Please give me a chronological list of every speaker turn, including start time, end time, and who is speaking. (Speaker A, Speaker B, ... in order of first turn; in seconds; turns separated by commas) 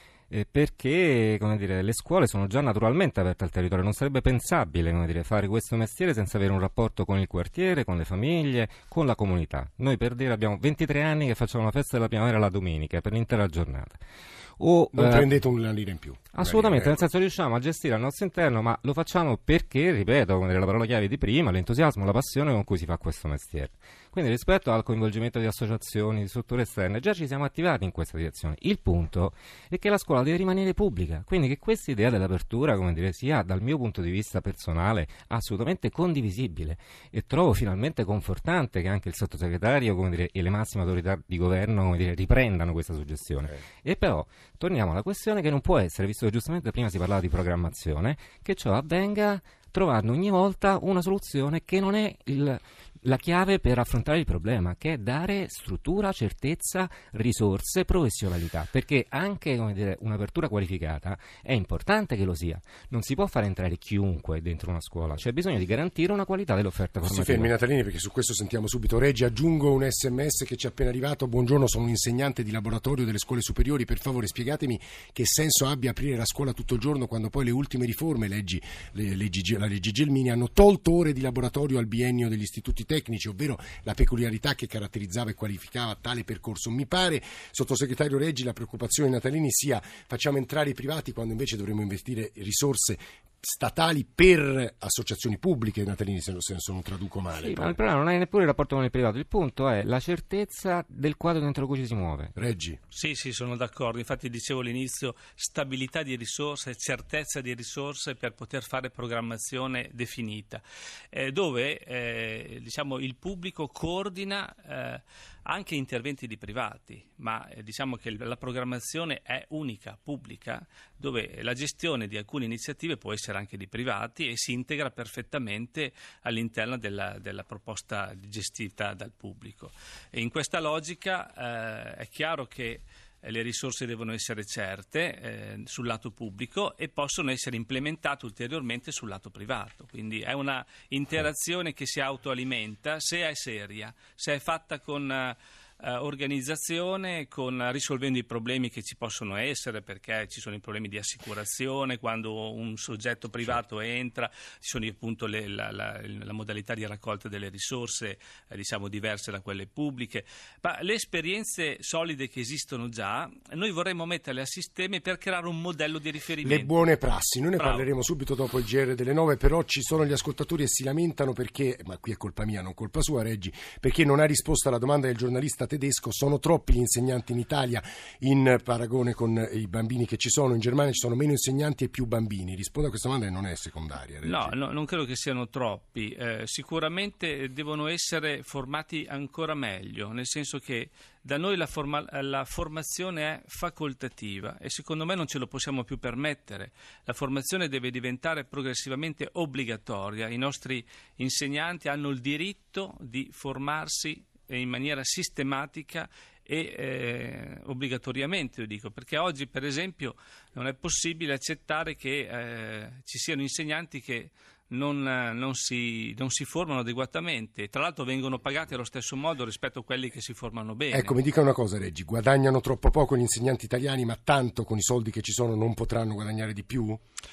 Speaker A: 0.3-14.0, Speaker A: 14.6-15.3, Speaker B: 14.9-17.0, Speaker A: 16.3-67.5, Speaker B: 67.0-97.8, Speaker A: 97.3-102.3, Speaker B: 102.3-102.8, Speaker C: 102.9-166.7, Speaker B: 166.4-184.5, Speaker C: 167.6-167.9, Speaker C: 184.2-221.2, Speaker B: 220.9-227.0